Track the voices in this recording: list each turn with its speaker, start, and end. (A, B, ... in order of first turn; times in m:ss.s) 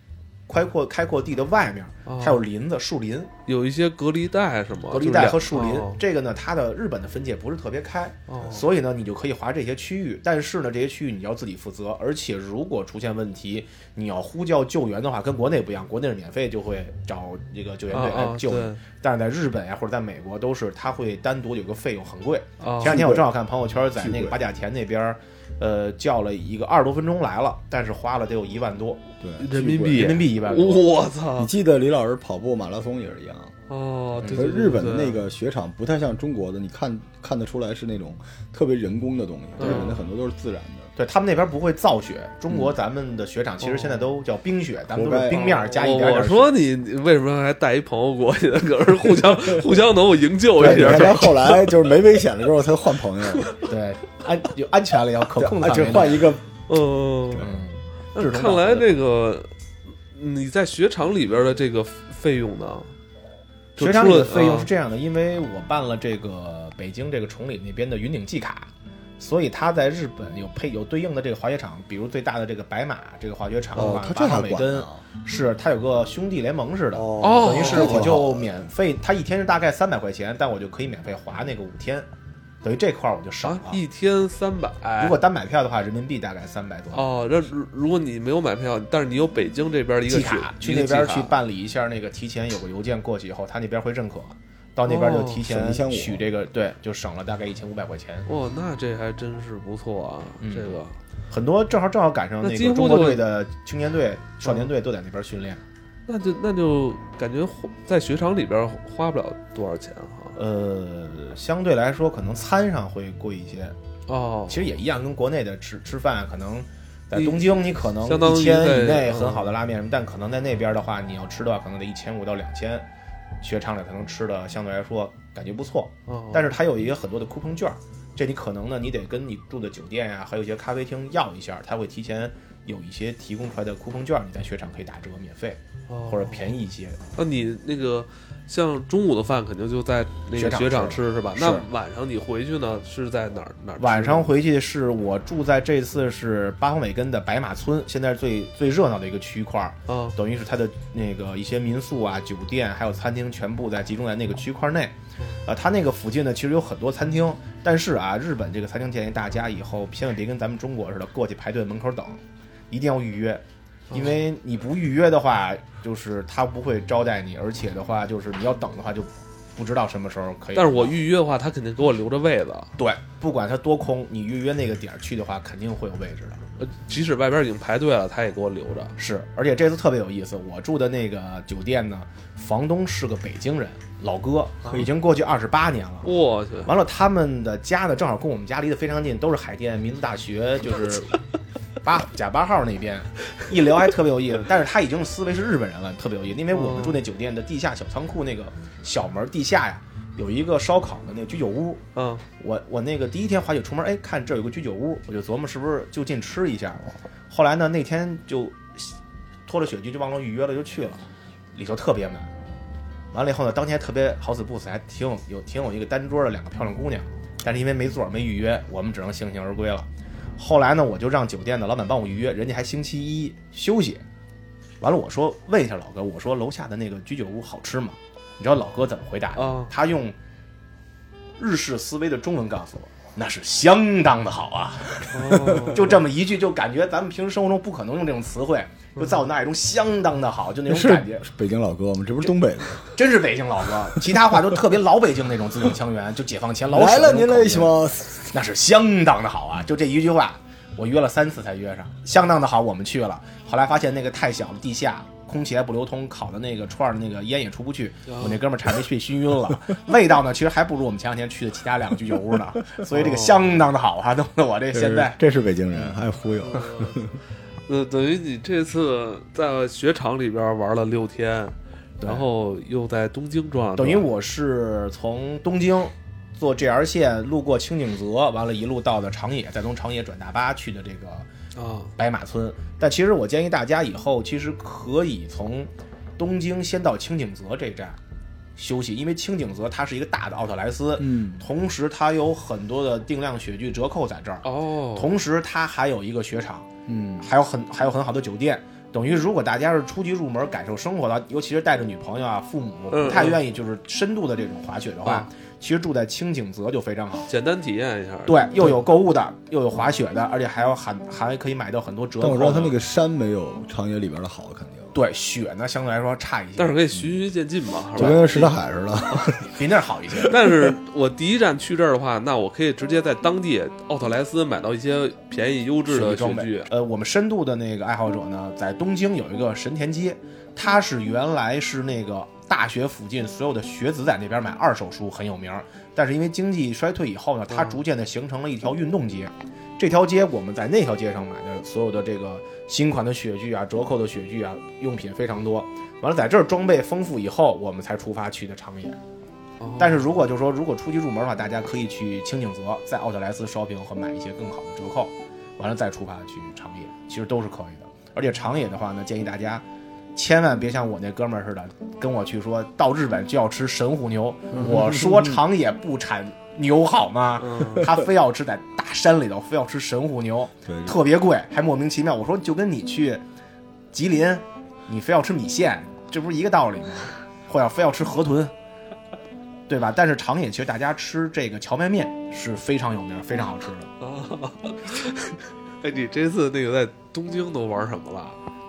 0:00.5-0:03.3 A
0:02.0-0:02.4 B
0:03.4-0:06.0 B
0:04.9-0:29.0 A
0:08.3-0:08.7 B
0:17.9-0:18.8 B
0:22.6-0:23.0 B
0:22.8-0:23.3 C
0:24.0-0:24.4 C
0:29.2-0:30.1 C
0:29.4-0:31.5 B
0:29.9-0:30.8 A
0:31.4-0:33.6 C
0:33.7-0:35.2 B
0:34.2-0:34.5 A
0:34.2-0:40.9 C
0:39.6-0:40.0 B
0:39.6-0:39.9 A
0:41.0-0:46.5 A
0:43.6-0:44.1 B
0:44.9-0:45.6 C
0:45.6-0:51.8 B
0:50.6-0:53.5 C
0:50.6-0:51.2 A
0:53.2-0:53.6 B
0:53.6-0:56.2 A
0:55.4-0:56.5 C
0:56.7-0:57.6 B
0:57.4-0:59.0 A
0:58.1-0:59.5 B
1:00.1-1:02.9 B
1:03.8-1:04.7 B
1:03.8-1:22.1 A
1:13.7-1:15.0 C
1:16.9-1:18.5 C
1:17.2-1:18.1 B
1:22.6-1:23.8 A
1:23.4-1:25.2 B
1:25.0-1:27.1 A
1:26.9-1:31.3 B
1:30.1-1:38.3 A
1:34.8-1:35.4 B
1:35.4-1:36.2 C
1:38.3-1:41.0 B
1:40.4-1:40.8 A
1:41.3-1:45.6 A
1:42.4-1:43.2 B
1:46.1-1:50.4 B
1:50.4-1:53.8 A
1:54.1-1:54.6 B
1:54.5-2:02.8 A
1:57.1-1:59.5 B
2:03.4-2:17.0 A
2:06.1-2:06.5 B
2:15.9-2:16.6 B
2:17.1-2:24.3 B
2:20.3-2:21.6 A
2:23.8-2:34.9 A
2:29.9-2:30.2 B
2:35.4-2:50.9 A
2:43.9-2:44.2 B
2:50.5-2:52.7 B
2:52.8-2:56.5 A
2:56.6-2:58.9 B
2:59.0-3:06.1 A
3:06.0-3:06.7 B
3:06.6-3:11.1 A
3:11.8-3:21.8 A
3:16.5-3:17.0 B
3:21.9-3:22.2 B
3:22.4-3:29.0 A
3:29.5-3:32.3 A
3:33.1-3:44.0 A
3:44.8-3:50.2 A
3:49.4-3:49.7 B
3:51.4-4:01.2 A
3:55.1-3:56.0 B
3:55.3-3:55.8 C
3:59.0-3:59.2 B
4:00.7-4:03.0 C
4:02.9-4:07.7 A
4:06.7-4:08.3 C
4:08.3-4:25.2 A
4:18.1-4:18.4 B
4:22.9-4:23.6 B
4:24.7-4:27.2 C
4:25.7-4:26.0 A
4:26.4-4:27.0 B
4:27.7-4:34.1 B
4:33.8-4:41.3 A
4:41.5-4:41.9 B
4:42.0-4:48.0 A
4:48.6-4:56.7 A
4:51.0-4:51.4 C
4:54.4-4:55.1 B
4:56.8-4:57.3 C
4:57.2-5:07.3 A
5:02.9-5:03.4 B
5:07.3-5:08.7 B
5:08.3-5:12.7 A
5:12.2-5:14.9 C
5:14.9-5:16.8 A
5:16.6-5:18.6 B
5:16.9-5:17.2 C
5:17.9-5:20.7 C
5:18.0-5:18.5 A
5:19.5-5:20.3 A
5:20.3-5:26.7 B
5:25.9-5:49.0 A
5:37.5-5:37.8 B
5:49.6-5:50.0 B
5:49.8-6:13.2 A
6:04.5-6:05.2 C
6:07.4-6:07.9 B
6:10.6-6:11.0 C
6:13.9-6:18.5 A
6:19.7-6:23.9 A
6:24.0-6:28.4 B